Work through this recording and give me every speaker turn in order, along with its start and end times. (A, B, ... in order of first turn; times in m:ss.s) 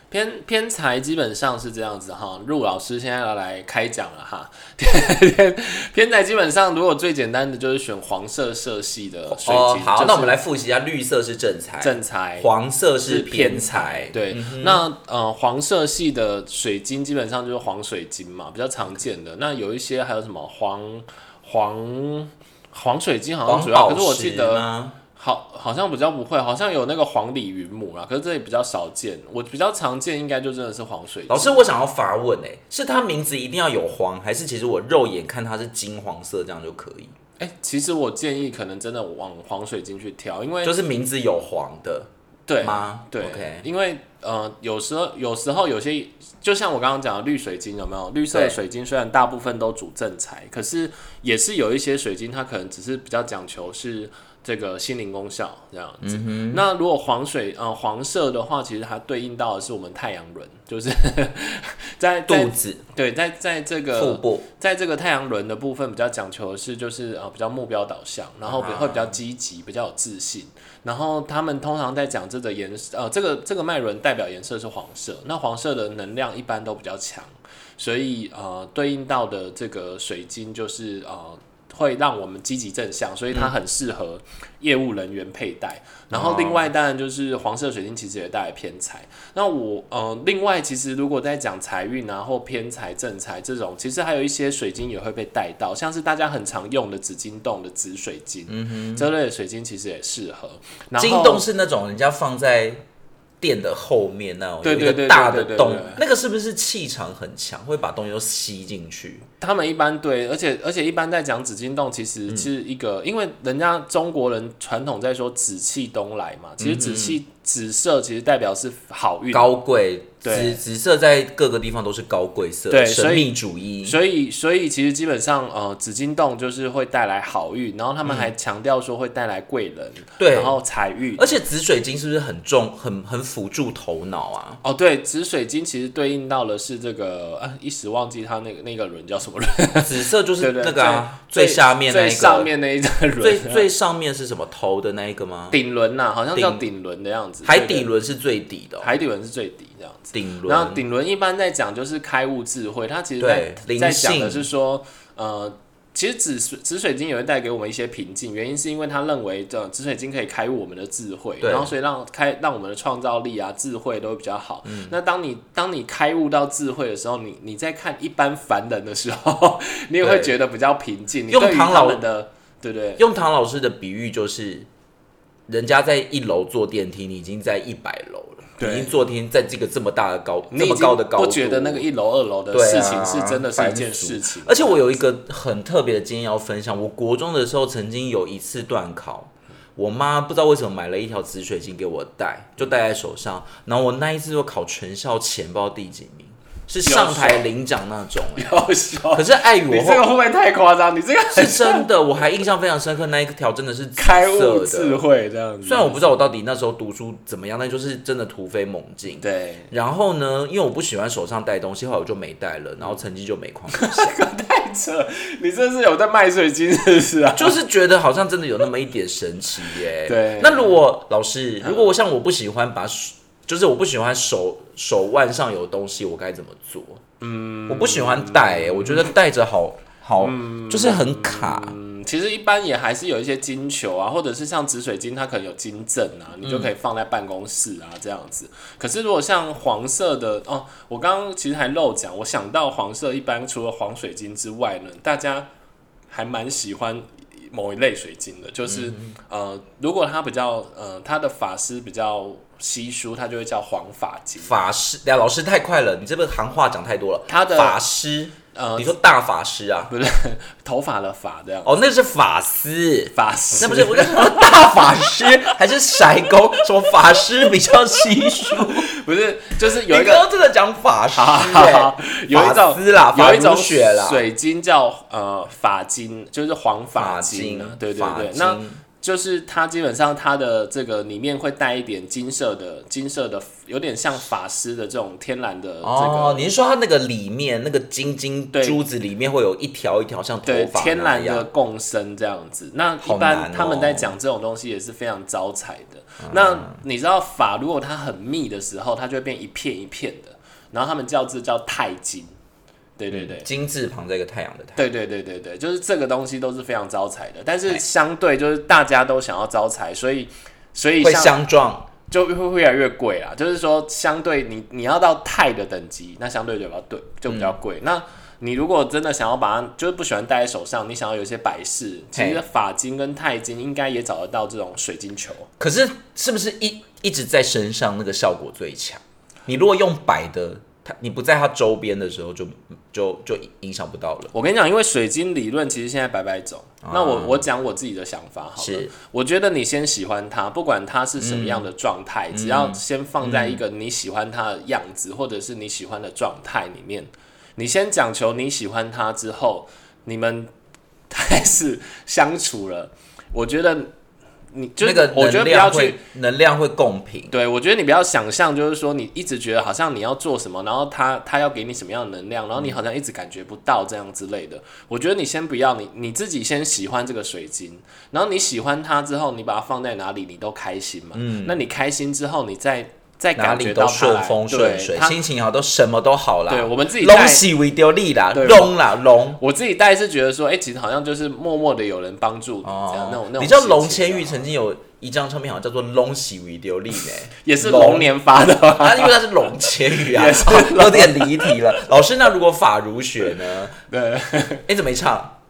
0:00.1-0:10.4 A
0:09.3-0:14.8 B
0:11.8-0:12.5 A
0:13.1-0:31.7 A
0:23.5-0:25.0 B
0:31.3-0:37.1 B
0:37.4-0:40.8 A
0:40.6-0:42.1 B
0:42.5-1:41.5 A
0:42.6-0:43.7 B
0:48.3-0:48.6 B
0:56.0-0:56.6 B
1:02.3-1:02.8 B
1:03.9-1:04.5 B
1:08.5-1:09.2 B
1:26.1-1:26.7 B
1:38.5-1:39.1 B
1:41.0-1:42.8 B
1:43.4-1:49.3 B
1:44.6-1:46.0 A
1:49.4-1:59.5 A
1:56.6-1:57.2 B
1:59.3-2:04.0 B
2:00.2-2:00.6 A
2:02.7-2:11.3 A
2:08.0-2:08.3 B
2:10.2-2:10.6 B
2:11.2-2:14.6 B
2:14.6-2:23.7 A
2:19.8-2:22.5 B
2:23.2-2:25.6 B
2:25.5-2:27.9 A
2:26.4-2:26.6 B
2:27.4-2:28.9 B
2:28.8-2:53.0 A
2:30.1-2:30.8 B
2:33.2-2:34.5 B
2:41.4-2:41.7 B
2:44.6-2:45.0 B
2:50.0-2:50.3 B
2:51.3-2:52.0 B
2:53.0-2:54.7 B
2:55.5-3:01.8 B
2:58.6-2:59.0 A
3:00.5-3:04.9 A
3:02.5-3:18.5 B
3:16.8-3:17.5 A
3:18.4-3:21.9 A
3:19.1-3:20.1 B
3:21.3-3:25.0 B
3:24.0-3:26.2 A
3:25.6-3:34.2 B
3:29.2-3:29.7 A
3:33.7-3:37.6 A
3:37.4-3:47.0 B
3:40.0-3:40.8 A
3:41.6-3:41.9 A
3:47.2-3:49.1 A
3:47.7-3:51.8 B
3:50.2-4:05.5 A
3:56.4-3:56.7 B
4:06.1-4:14.5 A
4:08.7-4:09.2 B
4:14.4-4:19.9 B
4:17.3-4:17.8 A
4:18.5-4:19.0 A
4:19.9-4:21.8 A
4:21.6-4:28.9 B
4:23.1-4:24.6 A
4:28.5-4:30.3 A
4:29.7-4:34.2 B
4:31.1-4:46.5 A
4:37.0-4:38.8 B
4:45.8-4:51.5 B
4:48.5-4:48.8 A
4:50.5-5:02.3 A
4:53.0-4:54.1 B
4:56.2-4:56.8 B
5:03.0-5:03.5 A
5:03.1-5:04.8 B
5:04.8-5:11.4 A
5:11.0-5:11.9 B
5:12.1-5:25.5 A
5:17.3-5:17.6 B
5:22.2-5:22.4 B
5:25.6-5:34.3 B
5:34.3-5:50.5 A
5:36.8-5:37.5 B
5:38.6-5:38.9 B
5:41.2-5:41.7 B
5:42.3-5:43.6 B
5:51.1-5:53.9 A
5:54.5-5:56.0 A
5:54.8-5:57.3 B
5:57.3-6:15.2 A
6:11.2-6:11.6 B
6:13.4-6:19.4 B
6:16.5-6:17.5 A
6:18.3-6:18.8 A
6:19.4-6:24.4 A
6:22.6-6:28.1 B
6:27.4-6:29.2 A
6:28.8-6:33.8 B
6:29.9-6:31.6 A
6:33.9-6:34.6 A
6:34.7-6:35.4 B